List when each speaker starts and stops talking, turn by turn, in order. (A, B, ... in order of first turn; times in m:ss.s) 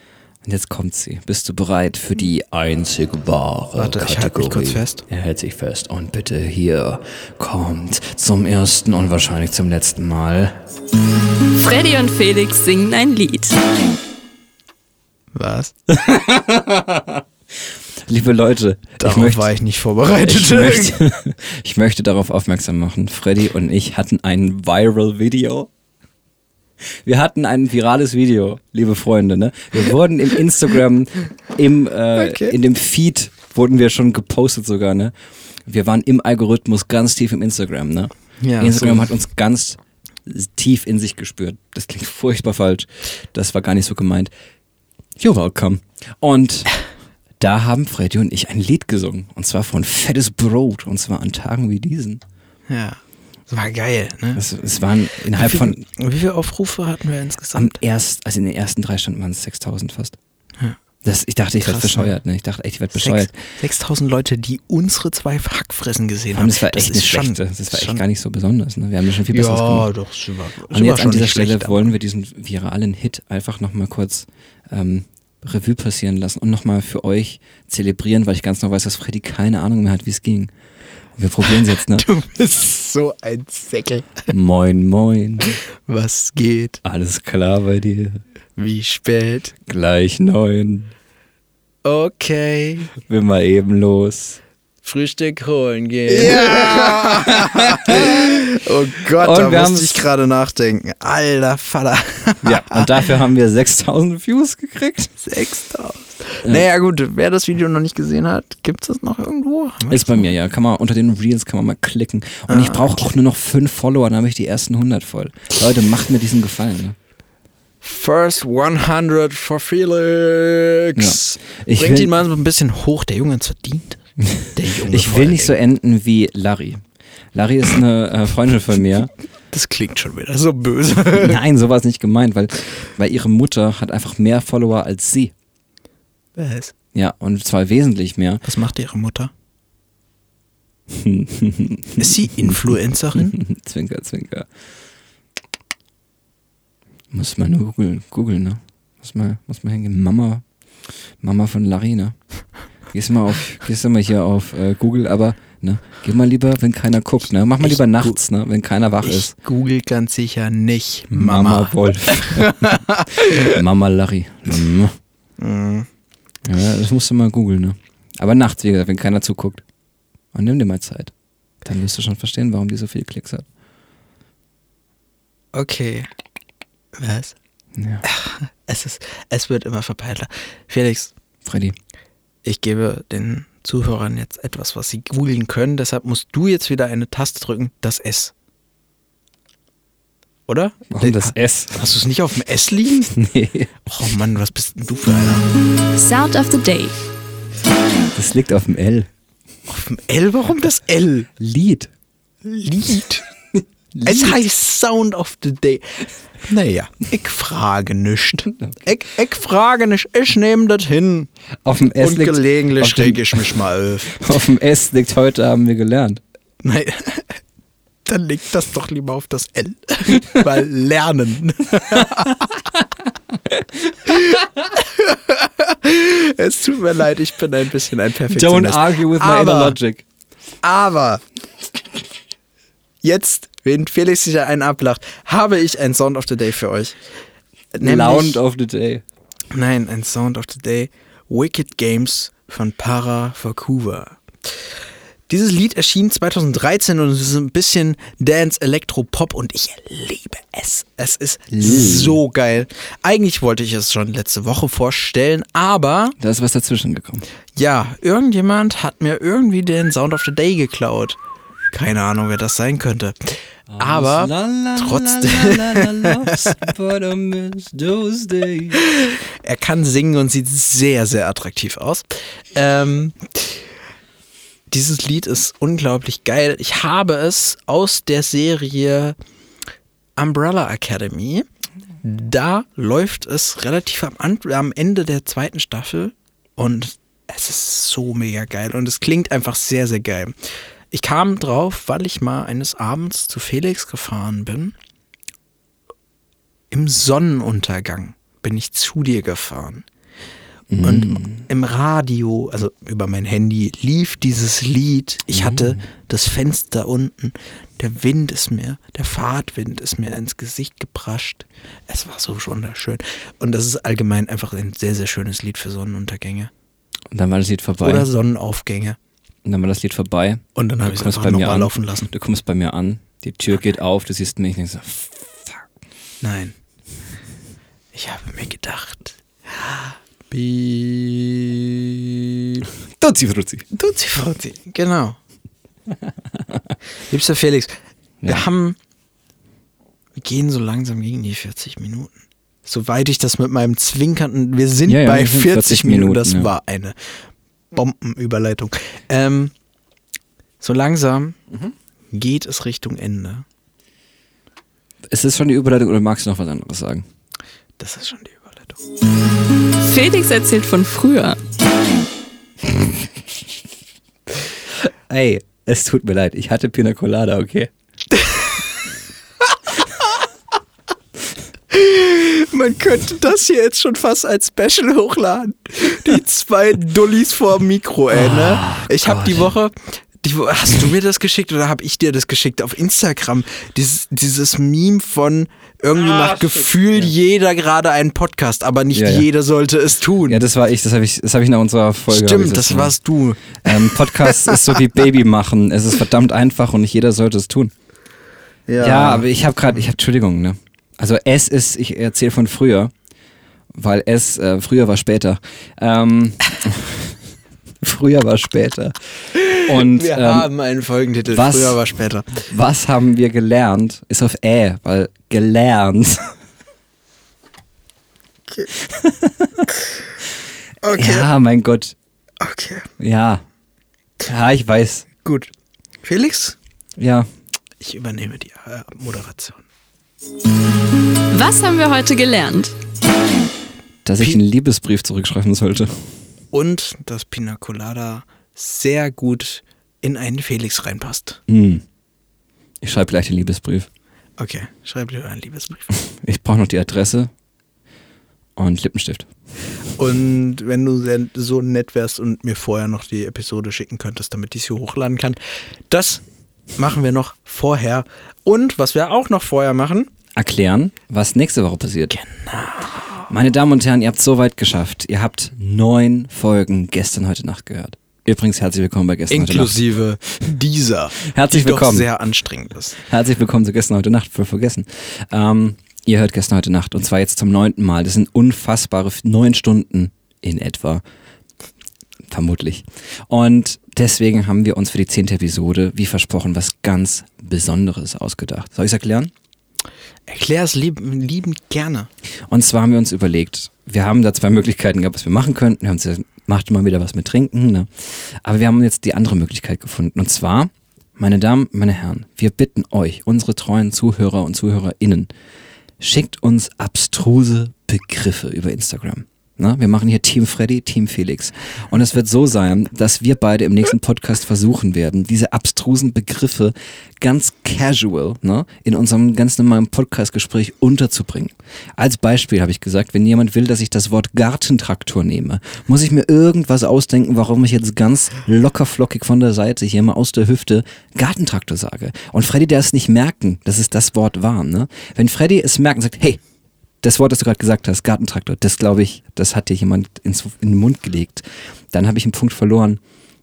0:00.4-0:10.6 A
0:03.8-0:05.0 B
0:11.6-0:13.6 C
0:15.3-0:15.7 B
0:15.9-0:17.2 A
0:18.1-0:19.5 A
0:19.0-0:21.0 B
0:20.2-0:25.7 A
0:26.8-0:35.1 A
0:32.2-0:32.6 B
0:35.6-0:44.3 A
0:38.4-0:39.1 B
0:45.2-0:46.7 A
0:47.4-0:52.2 A
0:52.7-0:54.4 B
0:54.4-0:55.8 A
0:55.3-0:57.8 B
0:57.5-1:00.2 A
1:01.0-1:03.3 A
1:01.6-1:02.2 B
1:02.9-1:08.0 B
1:06.3-1:09.9 A
1:09.3-1:11.9 B
1:10.7-1:20.5 A
1:21.2-1:22.0 A
1:21.5-1:24.3 B
1:24.3-1:25.6 A
1:25.9-1:26.8 B
1:26.8-1:28.2 A
1:28.6-1:29.6 B
1:29.6-1:30.9 A
1:31.8-1:32.9 B
1:33.1-1:34.4 A
1:34.8-1:42.9 B
1:36.1-1:38.4 A
1:39.1-1:40.0 A
1:42.4-1:45.1 A
1:45.2-1:50.3 B
1:49.9-1:57.0 A
1:52.5-1:53.1 B
1:57.8-2:05.6 B
2:01.0-2:02.1 A
2:04.3-2:09.1 A
2:09.5-2:11.4 B
2:11.1-2:15.3 A
2:16.4-2:16.7 B
2:16.9-2:18.4 A
2:18.4-2:19.3 B
2:20.9-2:24.5 A
2:22.0-2:23.4 B
2:27.1-2:30.4 A
2:31.2-2:32.2 A
2:32.9-2:39.3 A
2:37.6-2:38.2 B
2:39.0-2:43.6 B
2:41.1-2:42.8 A
2:43.4-2:45.0 A
2:45.4-2:45.9 B
2:46.4-2:49.6 A
2:50.3-2:51.1 A
2:51.6-2:53.4 A
2:55.5-2:56.1 B
2:57.0-2:57.4 B
2:57.8-2:58.0 A
2:58.0-3:01.1 B
3:01.4-3:01.8 A
3:02.4-3:08.3 B
3:10.5-3:13.2 B
3:10.9-3:11.8 A
3:13.1-3:13.8 A
3:13.8-3:15.5 B
3:16.0-3:17.0 C
3:18.1-3:19.1 A
3:19.7-3:21.3 B
3:21.4-3:21.9 A
3:22.4-3:23.2 B
3:23.9-3:24.4 A
3:24.0-3:31.3 B
3:31.6-3:36.2 A
3:32.0-3:34.4 B
3:36.6-3:37.4 B
3:38.0-3:42.5 B
3:44.0-3:49.8 B
3:48.3-3:50.0 A
3:50.6-3:51.2 B
3:53.0-3:57.0 B
3:57.7-3:58.4 B
3:57.8-3:59.0 A
3:59.5-4:04.7 B
4:05.3-4:16.2 B
4:11.5-4:12.2 A
4:16.2-4:17.3 A
4:17.5-4:21.2 B
4:21.7-4:26.6 B
4:23.7-4:28.8 A
4:28.8-4:33.6 B
4:34.7-4:39.2 B
4:40.2-4:41.5 B
4:42.0-4:50.4 B
4:50.9-4:54.7 B
4:56.7-4:59.8 B
5:00.7-5:01.4 A
5:00.8-5:16.5 B
5:05.3-5:05.8 A
5:17.1-5:18.1 A
5:17.8-5:19.0 B
5:19.4-5:25.6 A
5:20.6-5:22.1 B
5:26.2-5:26.5 B
5:27.9-5:32.6 B
5:33.0-5:33.7 A
5:33.7-5:35.2 B
5:37.1-5:38.8 B
5:40.2-5:42.1 B
5:42.6-5:49.5 B
5:44.8-5:46.5 A
5:50.6-5:51.4 B
5:52.1-5:53.4 B
5:55.1-5:57.0 A
5:57.8-5:58.8 B
5:59.8-6:01.4 C
6:04.8-6:07.7 A
6:08.1-6:08.5 B
6:11.7-6:30.4 B
6:18.1-6:19.5 A
6:28.9-6:29.3 A
6:30.3-6:33.0 A
6:32.1-6:34.8 B
6:33.6-6:37.7 A
6:38.7-6:39.3 B
6:38.8-6:42.9 A
6:43.7-6:47.2 A
6:47.8-6:50.5 A
6:49.3-6:52.4 B
6:51.3-6:51.8 A
6:52.5-6:56.3 A
6:58.8-6:59.7 A
7:00.8-7:01.3 B
7:00.9-7:02.0 A
7:02.4-7:02.9 B
7:03.0-7:03.4 A
7:04.2-7:05.1 A
7:05.2-7:05.5 B
7:06.0-7:06.6 B
7:07.0-7:07.3 A
7:07.8-7:09.6 B
7:11.3-7:12.7 C
7:14.0-7:16.1 A
7:16.5-7:21.4 B
7:21.5-7:21.8 A
7:22.8-7:23.9 A
7:24.4-7:26.0 B
7:26.1-7:27.3 A
7:28.6-7:29.3 A
7:29.9-7:35.4 B
7:35.9-7:36.2 B
7:36.8-7:40.1 B
7:40.4-7:42.2 A
7:42.1-7:43.3 B
7:43.3-7:49.7 A
7:49.3-7:53.0 B
7:51.2-7:52.1 A
7:53.0-8:01.0 A
8:02.3-8:09.3 A
8:10.3-8:12.1 B
8:12.5-8:25.3 A
8:26.0-8:56.4 A
8:57.0-9:03.0 A